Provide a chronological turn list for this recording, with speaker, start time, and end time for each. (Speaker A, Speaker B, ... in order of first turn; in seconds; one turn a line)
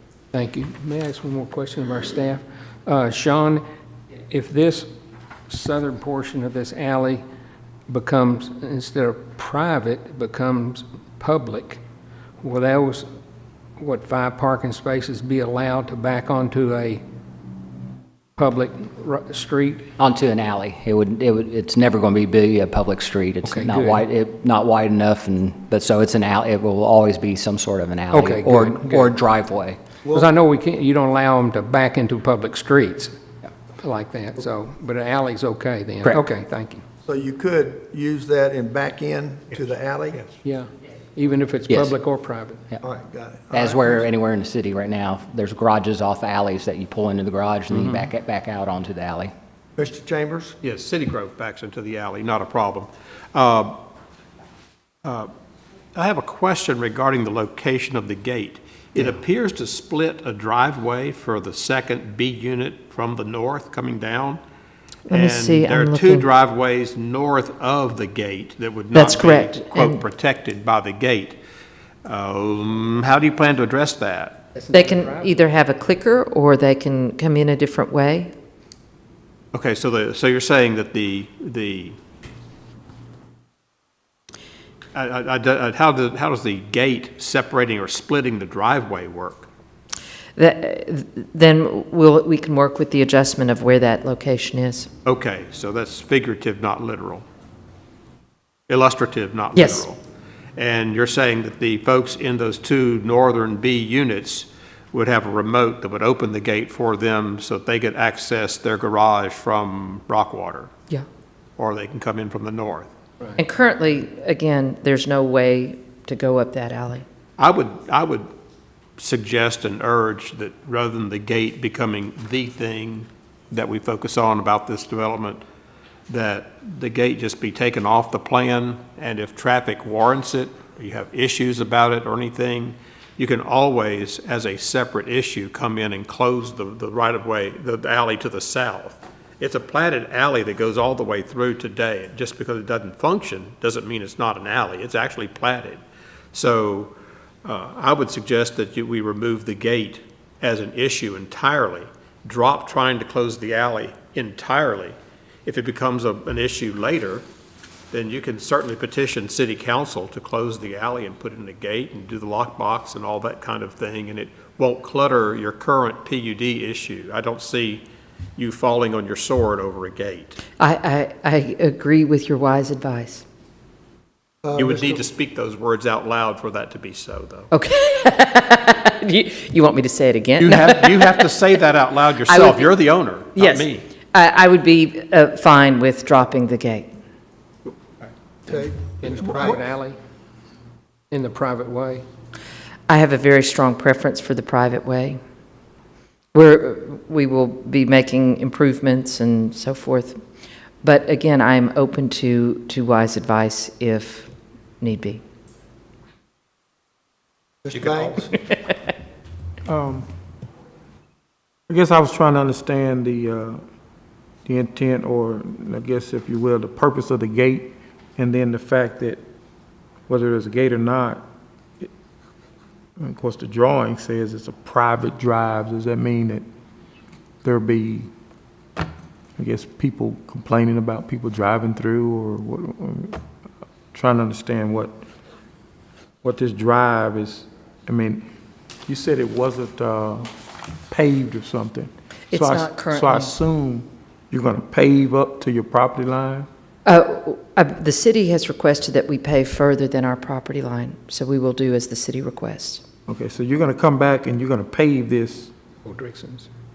Speaker A: 0.3-3.6
Speaker A: 4.3-4.9
Speaker A: 5.5-7.2
Speaker A: 7.9-11.8
Speaker A: 12.4-13.1
Speaker A: 13.8-17.0
Speaker A: 18.4-19.9
Speaker B: 20.0-29.8
Speaker A: 23.4-24.1
Speaker A: 28.1-29.1
Speaker A: 30.1-33.1
Speaker A: 33.8-36.8
Speaker C: 37.0-40.2
Speaker A: 40.4-42.6
Speaker B: 41.7-42.0
Speaker C: 42.8-44.0
Speaker B: 43.5-49.3
Speaker A: 47.7-48.0
Speaker C: 49.8-50.5
Speaker D: 50.6-53.8
Speaker D: 55.0-55.3
Speaker D: 56.0-64.4
Speaker E: 65.1-66.3
Speaker D: 65.1-71.4
Speaker E: 68.9-70.0
Speaker D: 72.0-74.4
Speaker A: 74.5-75.3
Speaker E: 74.7-78.3
Speaker D: 79.5-82.0
Speaker D: 84.9-89.5
Speaker E: 90.4-94.9
Speaker D: 95.0-97.2
Speaker D: 98.7-100.0
Speaker E: 99.5-99.8
Speaker D: 100.5-110.7
Speaker D: 111.6-112.9
Speaker E: 113.4-117.0
Speaker D: 117.4-118.3
Speaker D: 119.0-125.4
Speaker D: 126.1-145.8
Speaker D: 146.3-146.9
Speaker D: 147.4-157.2
Speaker D: 157.9-167.9
Speaker D: 168.4-170.4
Speaker E: 170.6-173.2
Speaker C: 174.4-175.1
Speaker D: 174.6-177.5
Speaker E: 177.5-181.2
Speaker D: 180.4-183.8
Speaker E: 182.3-182.7
Speaker E: 183.3-186.9
Speaker C: 188.5-189.6
Speaker A: 188.5-190.0
Speaker A: 191.1-192.1
Speaker E: 192.9-195.2
Speaker E: 196.3-200.2
Speaker E: 200.8-205.2
Speaker C: 207.7-208.3
Speaker D: 207.7-208.3
Speaker F: 209.7-210.1
Speaker F: 211.7-213.6
Speaker F: 214.4-219.2
Speaker F: 220.1-221.2
Speaker F: 223.0-226.4
Speaker F: 227.4-228.1
Speaker F: 229.4-233.2
Speaker F: 233.9-235.0
Speaker F: 236.2-238.2
Speaker F: 238.9-240.3
Speaker F: 240.9-246.5
Speaker E: 242.3-243.3
Speaker E: 246.9-252.8
Speaker F: 253.1-255.5
Speaker A: 255.8-256.5